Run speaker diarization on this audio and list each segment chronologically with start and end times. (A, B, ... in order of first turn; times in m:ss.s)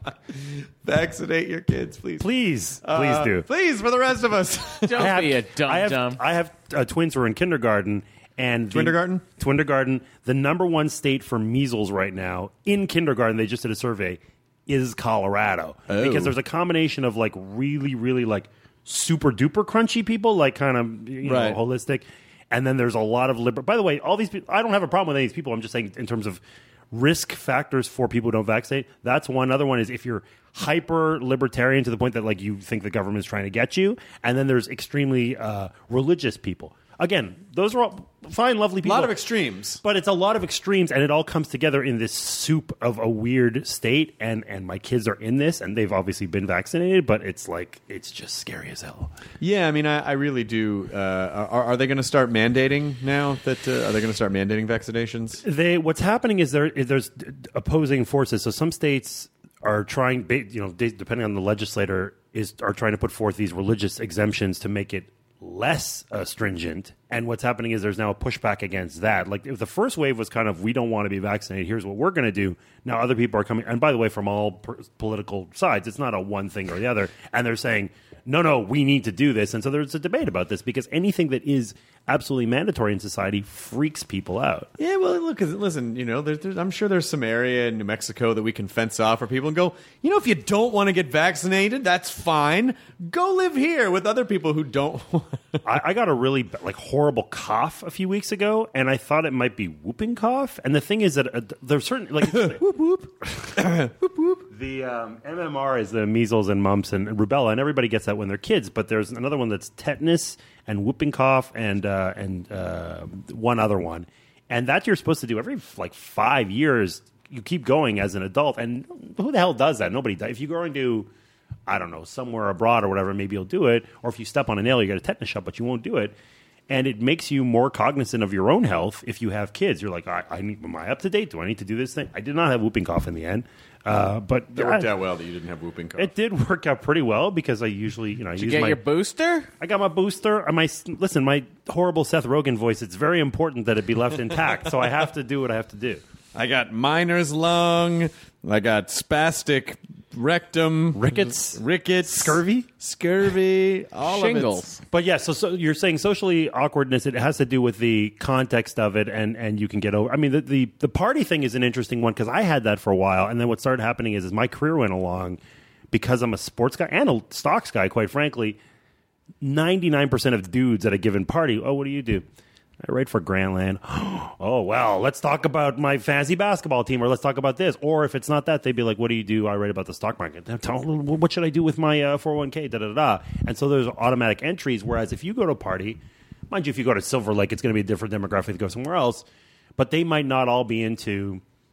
0:00.3-0:02.3 A
0:02.2-0:03.4 B
0:02.8-0:05.2 A
0:04.8-0:06.2 C
0:04.9-0:39.1 B
0:08.7-0:09.2 A
0:15.9-0:16.3 A
0:21.2-0:21.6 A
0:38.8-0:39.8 A
0:39.8-0:49.1 B
0:49.4-0:55.4 A
0:55.4-1:24.7 B
1:24.8-1:35.6 A
1:35.6-1:42.6 B
1:42.2-1:44.5 A
1:44.5-2:01.1 B
2:01.7-2:06.1 B
2:06.7-2:14.9 B
2:14.5-2:16.1 A
2:16.0-2:18.8 B
2:18.4-2:19.5 C
2:19.6-2:26.0 B
2:26.3-2:34.6 A
2:30.9-2:32.7 B
2:34.0-2:34.8 C
2:34.9-2:45.4 B
2:45.9-2:48.6 B
2:49.4-2:52.2 B
2:52.8-3:09.2 B
3:09.8-3:11.4 B